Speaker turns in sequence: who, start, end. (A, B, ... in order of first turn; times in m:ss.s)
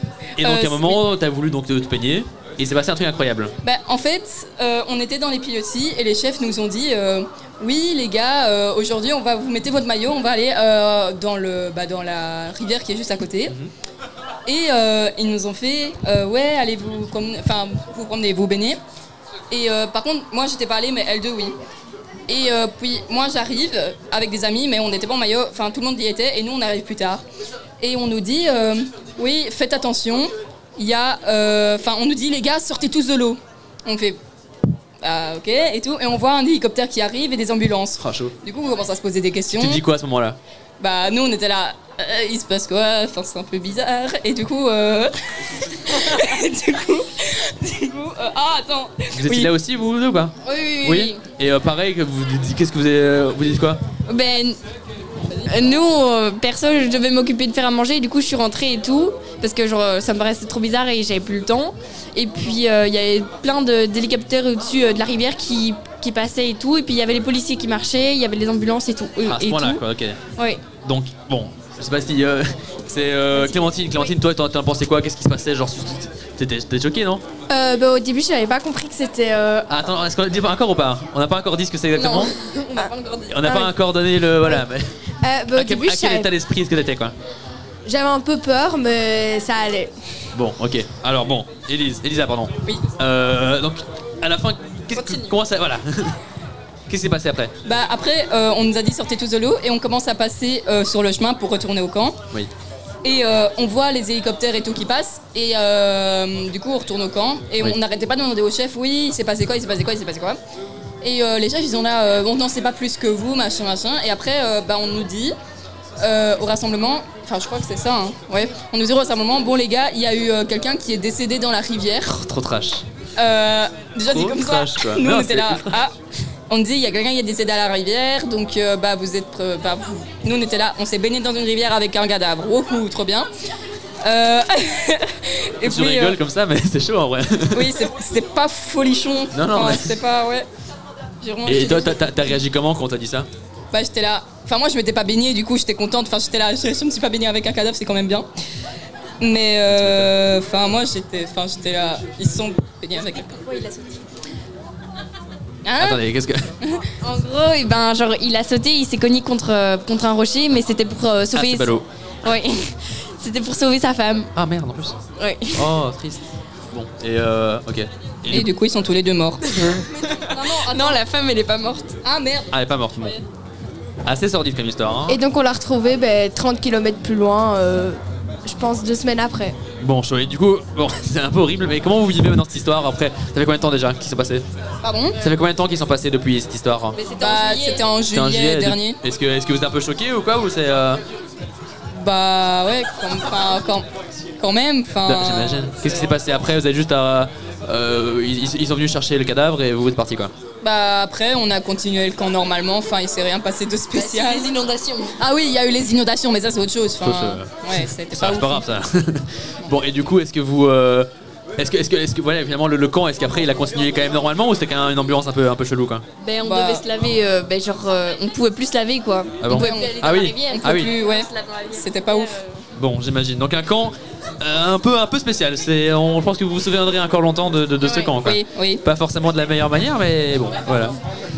0:00.4-0:03.5 A
0:00.4-0:01.0 B
0:03.6-0:13.5 B
0:14.5-0:18.8 B
0:19.5-0:21.6 B
0:22.3-0:27.2 B
0:27.8-0:34.2 B
0:35.0-0:39.8 B
0:38.0-0:38.3 A
0:39.5-0:40.4 A
0:40.8-0:49.5 B
0:49.1-0:53.8 A
0:50.4-0:51.2 C
0:54.1-0:54.6 C
0:55.2-0:55.7 B
0:55.4-1:09.8 C
1:09.2-1:10.2 A
1:10.4-1:10.6 C
1:10.8-1:17.2 A
1:13.4-1:14.1 C
1:17.5-1:19.7 D
1:19.7-1:22.4 A
1:22.0-1:23.3 C
1:22.7-1:23.7 D
1:23.3-1:24.9 A
1:25.2-1:26.3 D
1:25.5-1:27.1 A
1:27.8-1:29.9 D
1:30.3-1:36.2 A
1:34.9-1:35.4 B
1:36.9-1:37.5 A
1:37.6-1:42.2 B
1:43.0-1:50.4 B
1:51.0-1:55.4 B
1:56.0-2:02.2 B
2:02.1-2:02.8 A
2:03.2-2:05.9 B
2:04.1-2:05.8 A
2:06.5-2:13.3 B
2:14.0-2:16.2 B
2:15.6-2:17.8 A
2:17.5-2:20.5 B
2:19.3-2:19.9 A
2:21.2-2:22.4 B
2:21.5-2:23.3 A
2:23.7-2:28.3 B
2:29.2-2:33.4 B
2:29.7-2:30.1 A
2:33.3-2:34.0 C
2:35.6-2:36.0 B
2:35.8-2:36.5 A
2:36.6-2:36.9 B
2:37.0-2:44.3 C
2:41.3-2:41.9 A
2:44.4-2:45.0 A
2:45.2-2:45.8 C
2:45.5-2:48.5 A
2:48.3-2:51.0 B
2:49.4-2:52.0 C
2:52.0-2:52.5 B
2:52.5-2:53.2 A
2:54.0-2:55.2 A
2:55.1-2:59.6 D
2:59.8-3:04.4 A
3:04.8-3:05.2 B
3:05.2-3:07.0 A
3:07.0-3:07.9 C
3:07.2-3:09.0 B
3:08.1-3:11.0 A
3:11.9-3:13.9 B
3:14.4-3:16.2 B
3:15.1-3:20.3 A
3:20.6-3:24.5 B
3:23.9-3:25.2 C
3:25.2-3:28.7 B
3:27.0-3:36.0 A
3:36.2-3:42.6 C
3:36.4-3:36.8 B
3:39.4-3:40.9 A
3:39.5-3:42.4 B
3:42.7-3:51.0 A
3:47.8-3:48.1 C
3:48.2-3:48.8 B